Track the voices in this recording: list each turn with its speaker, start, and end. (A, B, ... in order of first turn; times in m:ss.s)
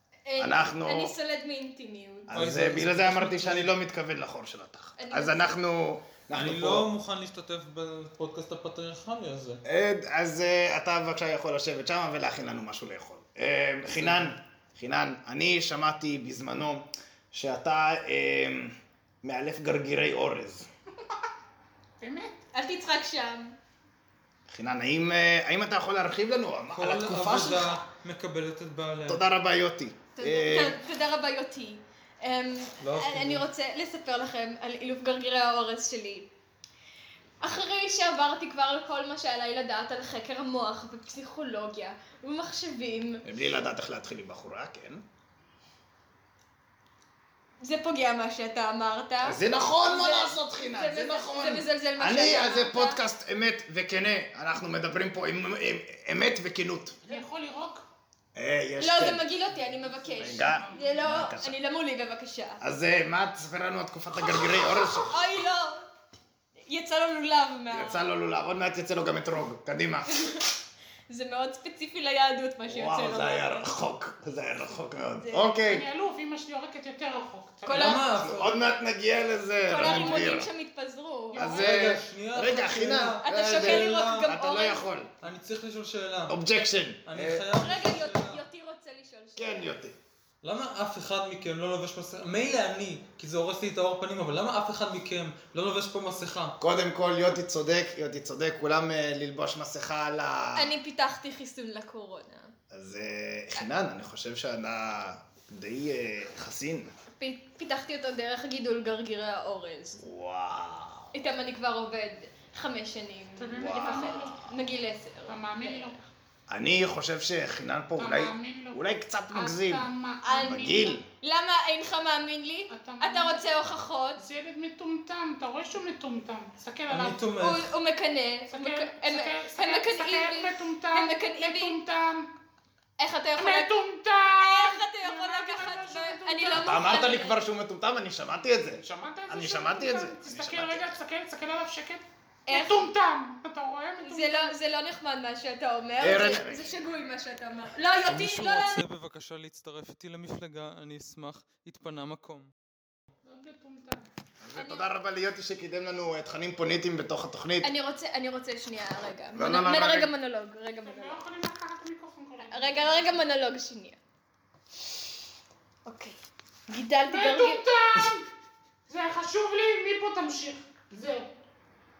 0:00.3-0:02.3 A
0:00.4-0:01.1 B
0:02.3-0:06.9 B
0:02.3-0:03.7 C
0:05.0-0:05.6 A
0:06.3-0:09.6 C
0:09.7-0:20.7 B
0:14.0-0:14.3 C
0:22.0-0:22.4 D
0:22.5-0:23.6 A
0:24.5-0:27.8 B
0:26.8-0:29.2 C
0:29.1-0:30.8 B
0:30.2-0:36.3 A
0:32.8-0:33.4 C
0:37.4-0:43.2 A
0:43.2-0:45.0 B
0:47.6-0:53.0 A
0:49.2-0:57.0 B
0:57.0-0:57.8 D
0:58.4-0:59.2 B
0:58.8-1:02.6 A
1:00.2-1:01.5 B
1:00.3-1:01.0 D
1:02.6-1:05.2 B
1:04.7-1:05.9 A
1:06.7-1:08.0 A
1:07.7-1:10.2 B
1:10.1-1:10.4 A
1:11.1-1:13.7 A
1:12.7-1:15.9 B
1:15.2-1:15.6 A
1:15.6-1:18.0 D
1:17.6-1:18.2 A
1:17.7-1:18.6 C
1:18.2-1:20.5 B
1:19.6-1:21.5 A
1:19.8-1:20.2 C
1:21.3-1:21.9 D
1:21.4-1:25.1 B
1:21.4-1:24.3 C
1:23.2-1:24.9 A
1:25.2-1:26.4 C
1:26.3-1:27.4 B
1:27.1-1:28.4 C
1:27.5-1:29.7 A
1:29.4-1:30.0 B
1:30.4-1:36.6 C
1:36.6-1:40.7 B
1:40.6-1:42.5 A
1:42.7-1:46.9 B
1:47.2-1:50.0 A
1:50.0-1:51.1 B
1:51.1-1:56.1 A
1:53.4-1:54.4 D
1:53.6-1:54.4 B
1:55.3-1:56.0 D
1:56.5-1:59.9 B
1:58.0-2:00.9 D
2:00.2-2:04.2 A
2:00.4-2:01.0 B
2:02.7-2:03.4 D
2:04.2-2:07.2 D
2:06.9-2:07.7 C
2:07.4-2:11.8 A
2:08.5-2:12.3 D
2:13.0-2:13.7 A
2:13.4-2:16.9 D
2:14.4-2:17.4 A
2:16.7-2:21.0 B
2:18.8-2:24.5 D
2:22.5-2:22.9 A
2:24.0-2:28.8 A
2:26.0-2:26.8 B
2:28.1-2:32.5 C
2:33.3-2:34.1 D
2:34.4-2:37.7 B
2:34.6-2:34.9 A
2:37.6-2:41.2 A
2:39.4-2:40.1 B
2:40.8-2:43.2 D
2:42.5-2:44.0 A
2:45.9-2:46.2 A
2:46.7-2:47.6 A
2:47.1-2:48.3 D
2:48.9-2:51.3 D